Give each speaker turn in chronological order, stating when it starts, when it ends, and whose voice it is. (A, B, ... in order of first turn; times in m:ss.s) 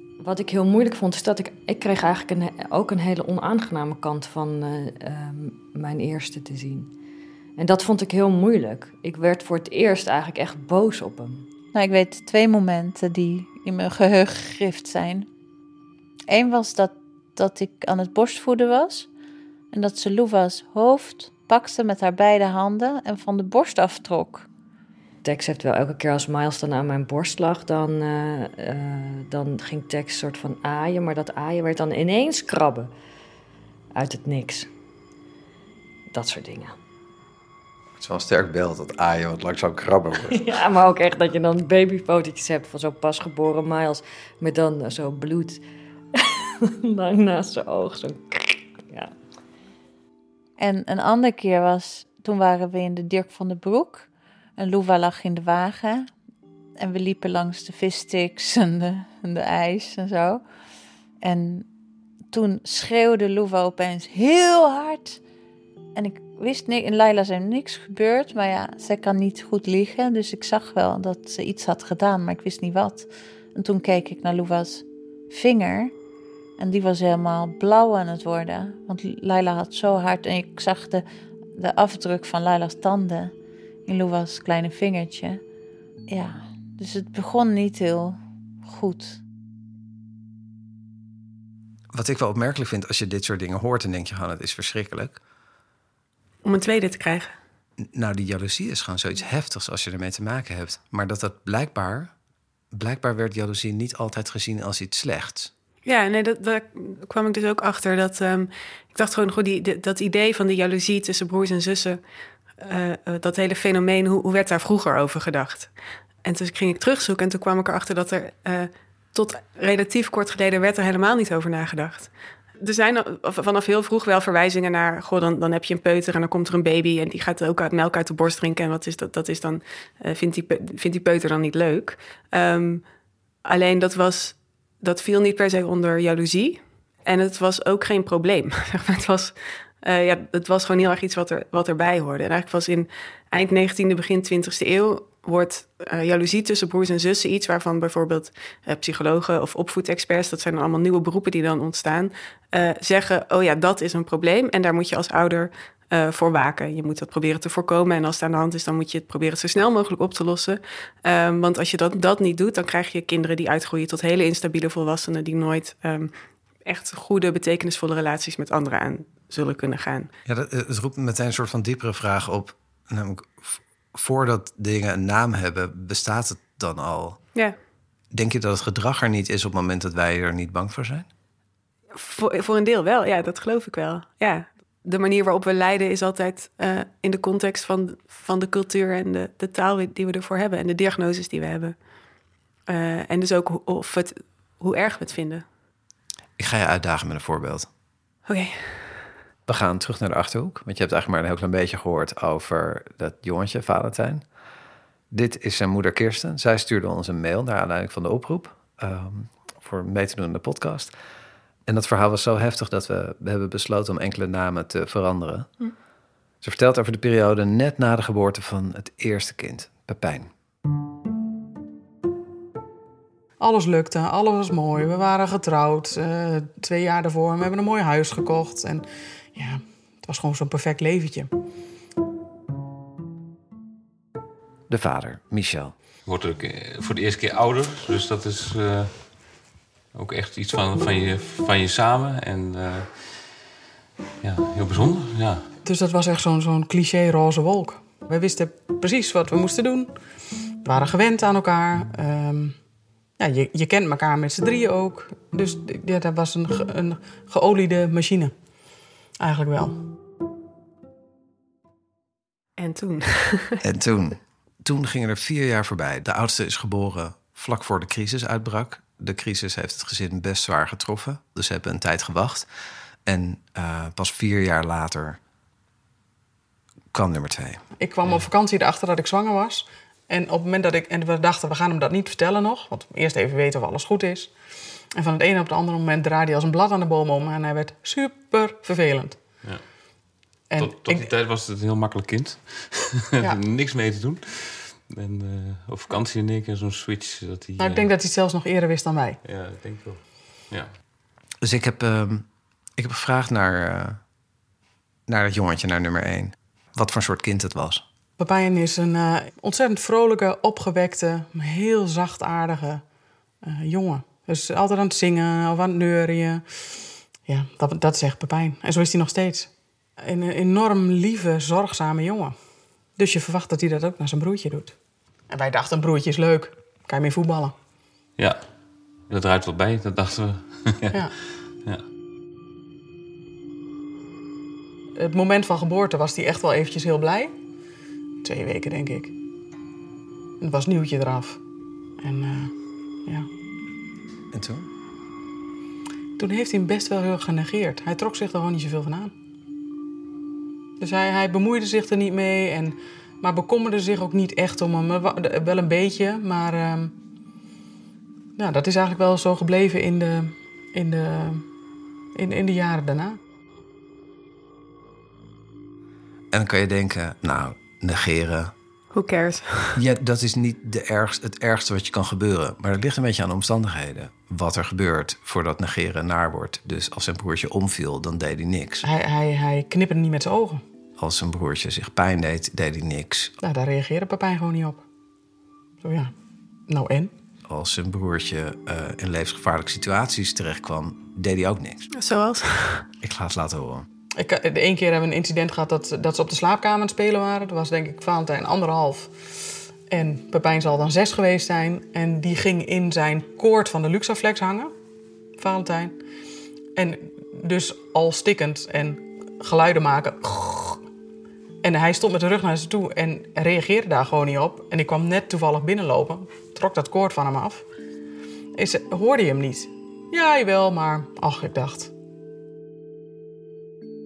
0:00.2-0:06.9 A
0:07.6-0:11.5 A
0:11.7-0:15.3 B
0:16.3-0:19.1 B
0:19.7-0:24.5 B
0:25.2-0:32.9 A
0:34.0-0:34.7 A
0:36.1-0:36.8 A
0:38.0-0:40.4 C
0:40.3-0:45.6 A
0:46.2-0:49.1 A
0:50.6-0:56.1 B
0:56.8-1:00.4 B
1:01.2-1:01.7 B
1:02.3-1:05.2 B
1:05.9-1:15.9 B
1:16.6-1:21.0 B
1:21.6-1:23.3 B
1:23.9-1:25.4 B
1:26.1-1:29.2 B
1:31.9-1:35.2 C
1:36.4-1:37.3 D
1:37.9-1:42.1 C
1:42.7-1:45.5 C
1:45.8-1:52.0 D
1:52.6-1:55.7 D
1:56.2-2:12.8 D
2:13.4-2:46.1 D
2:46.6-2:50.1 D
2:50.3-2:57.2 C
2:58.1-3:01.1 C
3:01.9-3:11.8 D
3:12.7-3:15.4 D
3:16.4-3:17.7 C
3:18.3-3:19.1 D
3:19.5-3:24.2 C
3:25.1-3:30.9 C
3:31.7-3:35.6 C
3:36.4-3:40.3 C
3:43.4-3:51.3 E
3:54.7-3:55.8 C
3:56.0-3:59.0 F
3:59.9-4:03.3 F
4:04.2-4:05.5 F
4:05.6-4:09.9 E
4:10.6-4:12.6 E
4:13.2-4:18.3 E
4:19.2-4:19.8 E
4:22.6-4:23.6 D
4:23.6-4:32.5 C
4:33.1-4:35.2 C
4:36.9-4:37.6 C
4:37.8-4:44.3 E
4:44.9-4:49.2 E
4:49.4-4:49.7 F
4:50.5-4:51.1 E
4:50.6-4:57.9 F
4:57.6-4:59.2 E
4:59.2-5:00.7 F
5:01.4-5:02.3 C
5:02.8-5:04.0 C
5:05.1-5:07.8 C
5:08.2-5:12.8 E
5:13.4-5:16.4 E
5:17.3-5:22.4 E
5:23.0-5:24.8 E
5:25.3-5:27.6 E
5:28.2-5:28.5 F
5:29.1-5:31.8 F
5:35.0-5:37.3 E
5:38.2-5:39.1 E
5:40.4-5:41.4 E
5:42.0-5:42.5 E
5:44.3-5:44.7 C
5:46.2-5:49.1 E
5:50.8-5:57.0 E
5:58.4-6:01.4 E
6:02.2-6:03.2 E
6:06.3-6:08.5 C
6:08.9-6:09.8 D
6:09.8-6:18.8 C
6:18.8-6:20.6 E
6:21.0-6:23.3 C
6:23.4-6:24.8 E
6:25.8-6:26.1 E
6:26.7-6:27.1 E
6:27.5-6:31.9 C
6:31.9-6:32.9 D
6:33.0-6:33.9 C
6:34.2-6:44.7 E
6:45.4-6:46.0 E
6:46.8-6:50.8 E
6:51.6-6:57.6 E
6:58.6-7:01.9 E